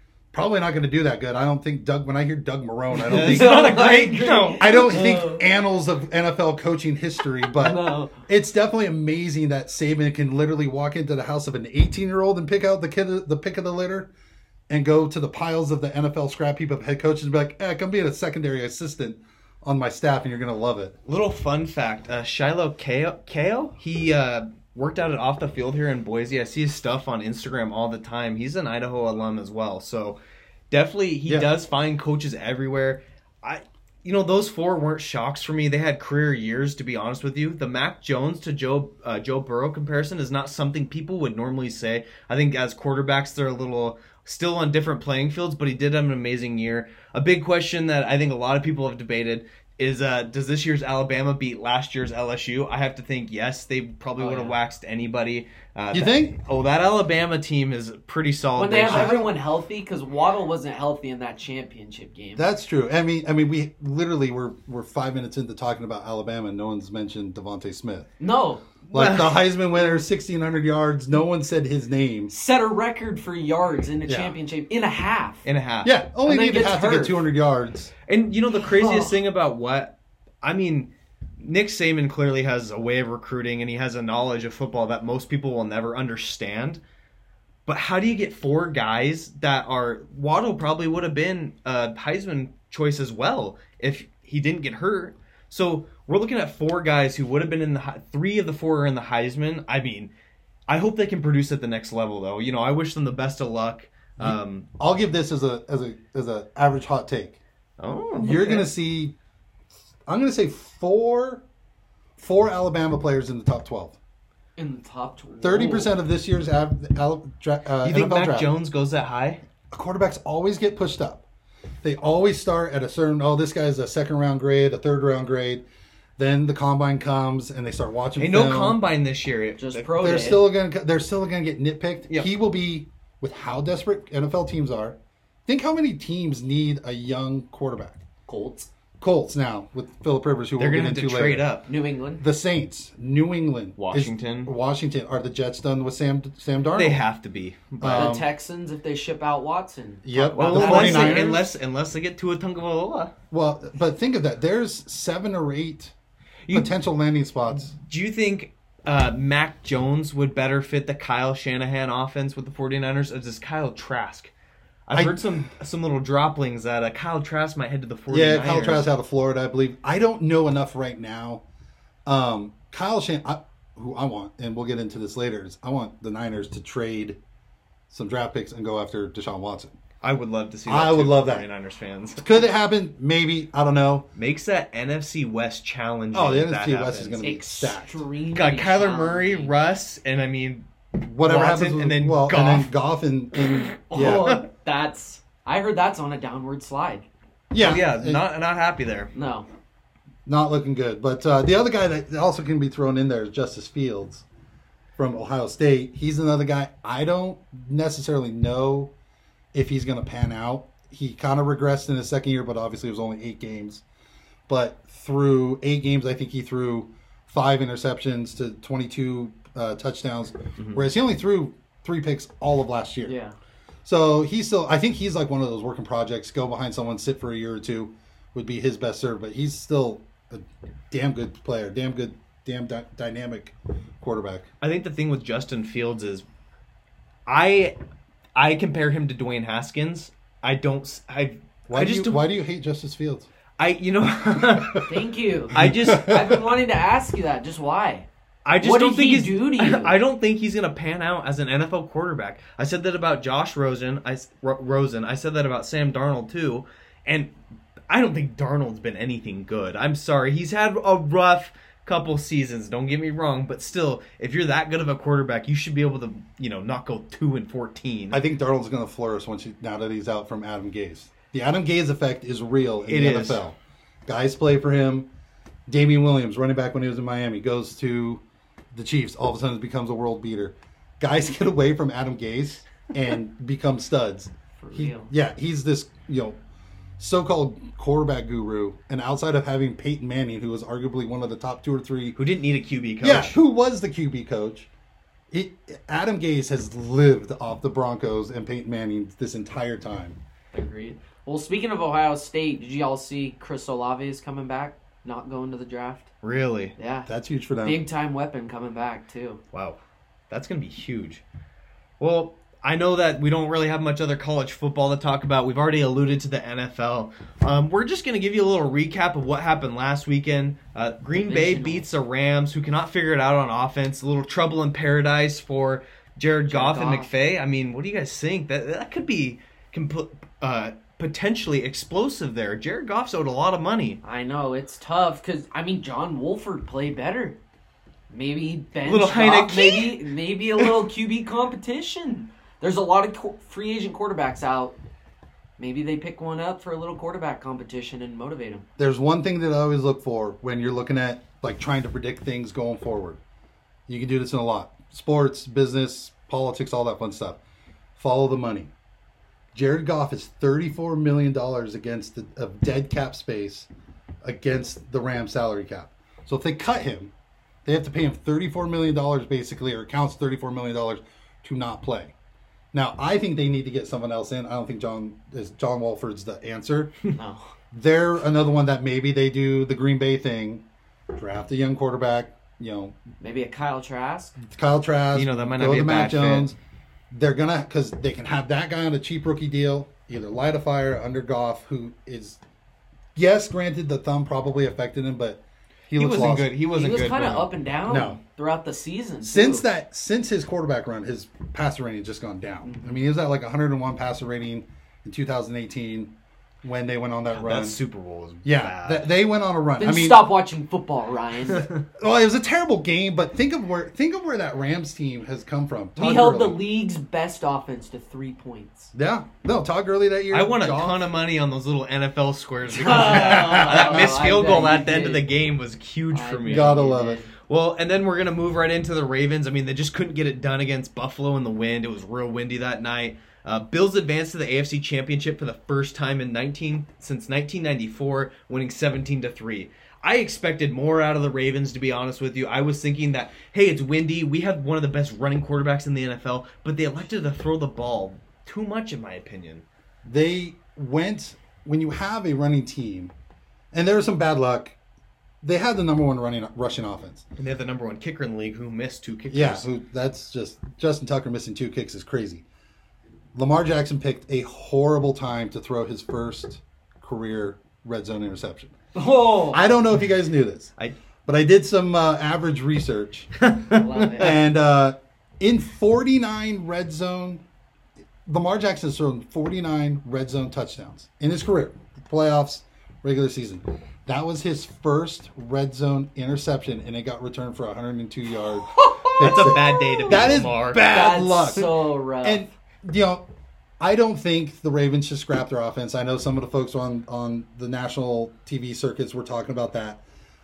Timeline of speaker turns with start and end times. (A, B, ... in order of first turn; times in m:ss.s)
0:00.3-0:03.9 A
0:03.0-0:05.4 B
0:03.0-0:04.7 C
0:04.6-0:14.1 A
0:07.6-0:08.2 B
0:14.7-0:21.0 A
0:21.1-0:30.2 C
0:30.7-0:59.2 C
0:54.2-0:54.6 B
0:55.9-0:56.4 A
0:58.6-1:02.4 B
0:58.9-0:59.3 A
1:02.4-1:08.1 A
1:08.2-1:08.7 B
1:08.9-1:12.3 A
1:08.9-1:09.4 C
1:12.3-1:15.4 B
1:14.1-1:14.4 A
1:15.4-1:15.9 C
1:15.8-1:17.9 A
1:16.2-1:17.2 B
1:18.1-1:26.8 C
1:18.6-1:19.1 B
1:27.7-1:40.1 C
1:40.7-1:44.7 C
1:44.2-1:47.4 A
1:47.8-1:48.7 C
1:48.2-1:49.2 A
1:50.1-1:51.4 A
1:52.2-1:54.0 A
1:54.6-1:56.0 B
1:55.4-1:58.5 A
1:57.8-1:59.4 C
1:59.7-2:01.2 A
2:01.8-2:05.6 A
2:06.2-2:08.8 A
2:08.2-2:10.2 C
2:09.6-2:10.4 B
2:10.0-2:18.0 A
2:18.3-2:18.7 B
2:19.0-2:21.5 A
2:20.6-2:21.7 C
2:21.7-2:22.2 B
2:22.2-2:27.0 A
2:23.8-2:24.5 C
2:26.8-2:28.2 C
2:27.8-2:28.3 A
2:28.0-2:31.4 B
2:30.0-2:31.5 A
2:30.4-2:33.1 C
2:33.3-2:35.9 A
2:36.5-2:37.7 A
2:37.6-2:44.3 C
2:44.9-2:48.9 C
2:44.9-2:45.2 A
2:48.1-2:51.4 A
2:52.1-2:57.2 A
2:57.9-2:59.8 A
3:00.0-3:02.2 C
3:00.7-3:01.5 A
3:02.2-3:04.1 A
3:04.2-3:07.3 C
3:06.1-3:08.0 A
3:07.2-3:09.5 B
3:08.4-3:10.7 C
3:11.0-3:14.4 A
3:11.2-3:12.7 C
3:13.9-3:17.1 B
3:14.0-3:14.4 C
3:17.5-3:18.2 A
3:17.6-3:19.1 C
3:19.1-3:19.5 B
3:20.3-3:24.2 A
3:25.0-3:28.9 A
3:29.5-3:33.8 A
3:34.5-3:43.1 A
3:40.6-3:40.8 C
3:43.1-3:43.4 B
3:43.8-3:54.5 A
3:54.6-3:56.2 C
3:57.3-3:57.8 C
3:58.4-4:02.2 C
4:01.7-4:03.3 A
4:03.6-4:04.9 C
4:04.5-4:04.8 A
4:04.8-4:08.1 B
4:05.5-4:06.1 C
4:05.5-4:06.4 A
4:08.4-4:17.3 C
4:08.6-4:10.0 B
4:17.9-4:28.2 C
4:28.1-4:35.1 A
4:32.9-4:33.4 C
4:35.7-4:46.4 A
4:44.6-4:45.1 B
4:47.0-4:52.2 A
4:52.2-4:53.4 C
4:53.0-4:54.7 A
4:55.3-5:00.2 A
5:00.5-5:06.1 B
5:06.2-5:06.8 C
5:06.8-5:07.1 B
5:07.1-5:07.8 A
5:07.6-5:09.4 B
5:10.3-5:11.2 C
5:12.0-5:34.0 C
5:21.1-5:21.9 B
5:26.5-5:27.1 B
5:34.0-5:37.4 B
5:38.1-5:44.8 B
5:38.8-5:40.0 C
5:45.6-5:48.7 B
5:48.8-5:53.2 A
5:53.9-5:57.4 A
5:58.0-5:58.7 A
5:59.5-6:03.7 A
6:04.2-6:07.1 A
6:07.6-6:12.1 A
6:12.7-6:17.0 A
6:17.2-6:17.5 B
6:17.7-6:23.0 A
6:23.2-6:24.4 B
6:24.4-6:26.6 A
6:25.1-6:26.5 C
6:27.1-6:32.4 A
6:33.2-6:36.5 A
6:36.0-6:37.5 C
6:36.7-6:39.7 B
6:37.9-6:38.2 A
6:39.2-6:47.8 A
6:47.3-6:49.1 C
6:48.4-6:50.3 A
6:49.8-6:51.7 B
6:51.5-6:51.8 C
6:52.0-6:56.6 A
6:56.0-6:58.9 B
6:58.9-7:01.0 A
7:00.3-7:29.6 C
7:02.7-7:05.2 B
7:02.9-7:04.2 A
7:06.1-7:07.3 B
7:06.4-7:07.2 A
7:30.0-7:33.1 A
7:33.7-7:34.8 A
7:35.4-7:37.3 A
7:37.4-7:39.7 C
7:39.3-7:42.4 A
7:43.4-7:48.8 A
7:49.0-7:49.6 B
7:49.5-7:50.7 A
7:51.3-7:53.3 A
7:53.4-7:54.4 C
7:53.7-7:54.3 B
7:54.2-7:57.4 A
7:58.3-8:13.2 A
8:08.8-8:10.9 C
8:10.8-8:12.5 B
8:13.8-8:20.0 A